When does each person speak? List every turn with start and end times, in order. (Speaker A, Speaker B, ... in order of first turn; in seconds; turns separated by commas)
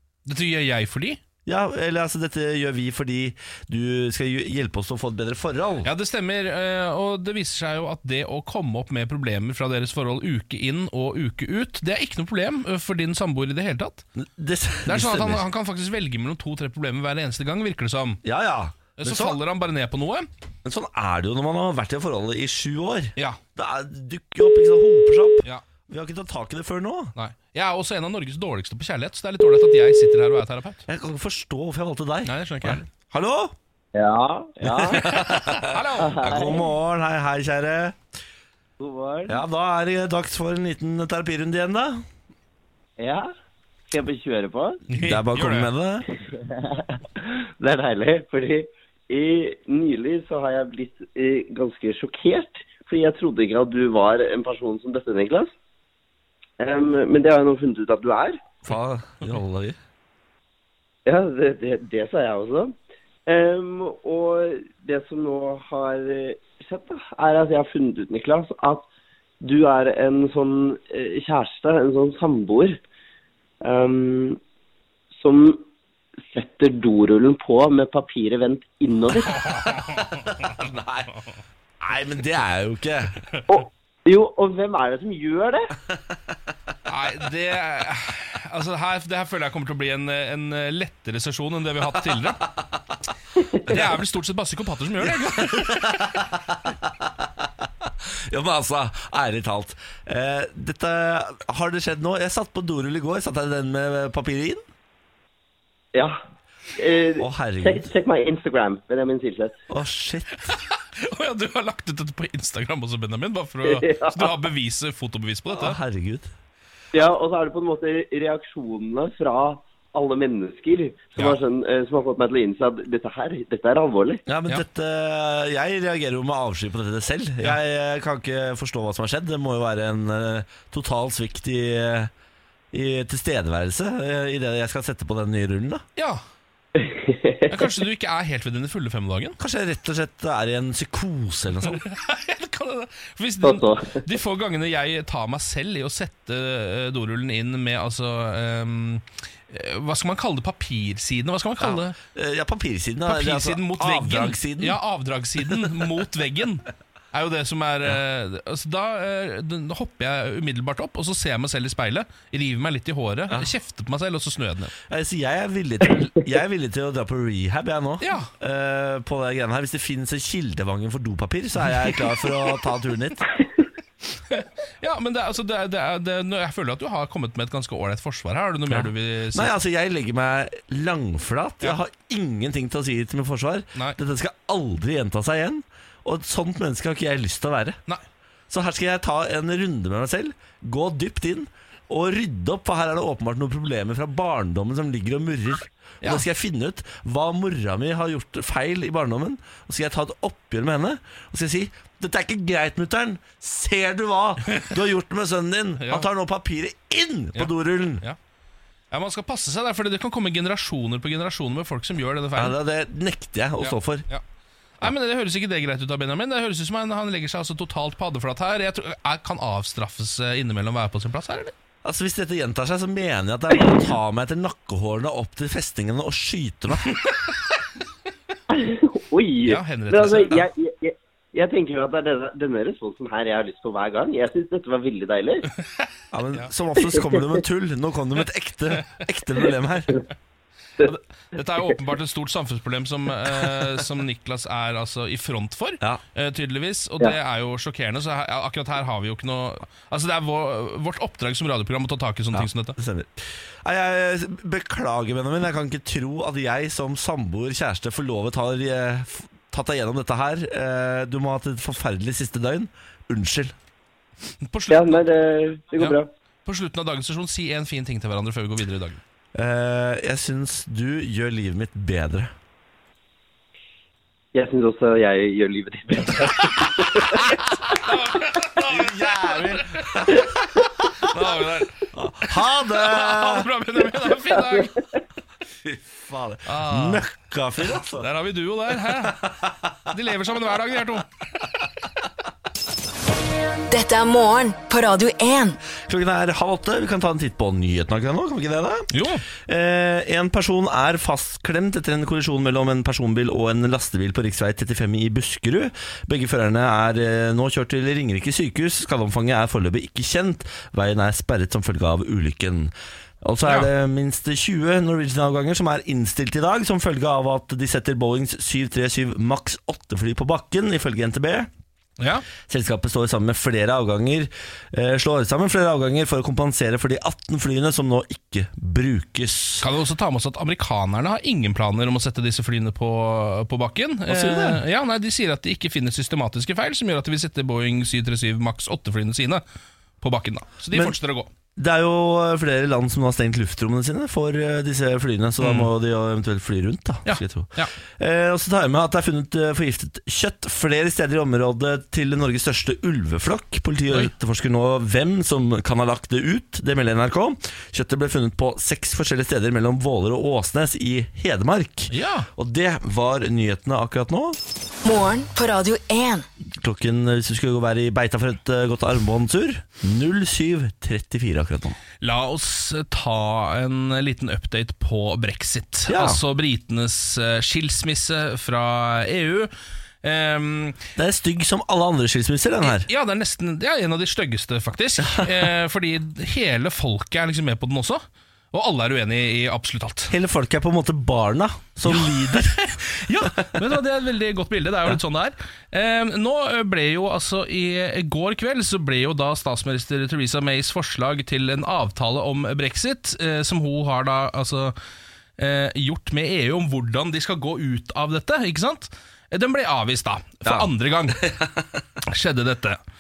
Speaker A: 0.2-1.2, Speaker B: 1.4-5.9, Speaker A: 5.8-14.0, Speaker B: 14.2-15.4, Speaker A: 14.8-18.2, Speaker B: 18.2-19.4, Speaker A: 19.0-20.3, Speaker B: 20.6-27.1, Speaker A: 27.1-30.8, Speaker B: 30.9-33.5, Speaker A: 32.2-32.9, Speaker C: 33.9-35.2, Speaker B: 34.6-38.0, Speaker A: 34.9-36.5, Speaker C: 36.0-36.7, Speaker C: 38.8-39.4, Speaker B: 39.3-42.0, Speaker C: 43.0-43.3, Speaker C: 43.9-44.8, Speaker A: 44.9-45.7, Speaker B: 45.0-46.1, Speaker C: 46.3-55.5, Speaker C: 56.6-58.4, Speaker B: 58.6-59.8, Speaker C: 61.0-62.7, Speaker C: 63.2-68.8, Speaker C: 69.4-72.8, Speaker C: 73.6-74.4, Speaker C: 75.1-75.6, Speaker C: 76.3-79.4, Speaker A: 79.4-80.2, Speaker B: 80.0-81.1, Speaker B: 81.8-83.2, Speaker C: 83.5-85.7, Speaker A: 86.8-92.4, Speaker B: 92.1-92.8, Speaker A: 93.6-96.2, Speaker B: 95.0-104.6, Speaker C: 106.8-109.6, Speaker B: 107.2-107.9, Speaker B: 109.7-110.5, Speaker A: 110.5-115.8, Speaker C: 113.6-114.3, Speaker B: 115.5-116.3, Speaker C: 116.9-124.2, Speaker B: 124.3-132.1, Speaker B: 132.7-135.8, Speaker C: 136.8-137.5, Speaker A: 137.5-139.4, Speaker B: 139.4-141.8, Speaker A: 141.7-151.9, Speaker C: 143.4-144.0, Speaker B: 151.6-154.8, Speaker A: 153.1-164.7, Speaker B: 164.9-173.3, Speaker A: 168.0-168.3, Speaker A: 174.3-179.6, Speaker B: 178.7-187.8, Speaker B: 188.5-208.0, Speaker A: 205.8-206.1, Speaker A: 207.3-208.2, Speaker A: 208.9-212.6, Speaker B: 212.3-214.1, Speaker A: 213.6-214.2, Speaker A: 214.8-221.5, Speaker B: 221.8-227.0, Speaker C: 228.5-235.5, Speaker A: 229.4-230.5, Speaker A: 235.8-236.5, Speaker B: 236.1-240.0, Speaker A: 240.8-252.8, Speaker B: 252.3-263.5, Speaker A: 264.4-265.0, Speaker C: 264.7-266.1, Speaker A: 265.8-269.0, Speaker B: 269.3-272.3, Speaker C: 274.3-277.3, Speaker A: 276.5-284.8, Speaker B: 278.6-280.3, Speaker B: 281.9-283.5, Speaker B: 285.6-288.1, Speaker A: 286.4-287.0, Speaker A: 287.9-289.3, Speaker B: 288.9-289.7, Speaker A: 289.9-291.7, Speaker D: 293.7-295.6, Speaker B: 295.8-321.5, Speaker A: 298.9-299.2, Speaker A: 322.0-322.2, Speaker B: 322.5-329.6, Speaker A: 329.6-339.4, Speaker B: 334.1-334.6, Speaker A: 340.0-341.3, Speaker B: 341.6-364.4, Speaker A: 345.4-345.7, Speaker A: 347.0-347.7, Speaker A: 361.9-362.3, Speaker D: 364.8-366.2, Speaker B: 366.5-371.8, Speaker A: 372.0-379.5, Speaker B: 375.9-376.2, Speaker A: 380.0-380.8, Speaker B: 380.9-382.9, Speaker A: 382.6-390.1, Speaker B: 390.1-392.6, Speaker A: 391.9-404.7, Speaker A: 405.4-411.4, Speaker B: 410.4-411.5, Speaker A: 412.0-412.8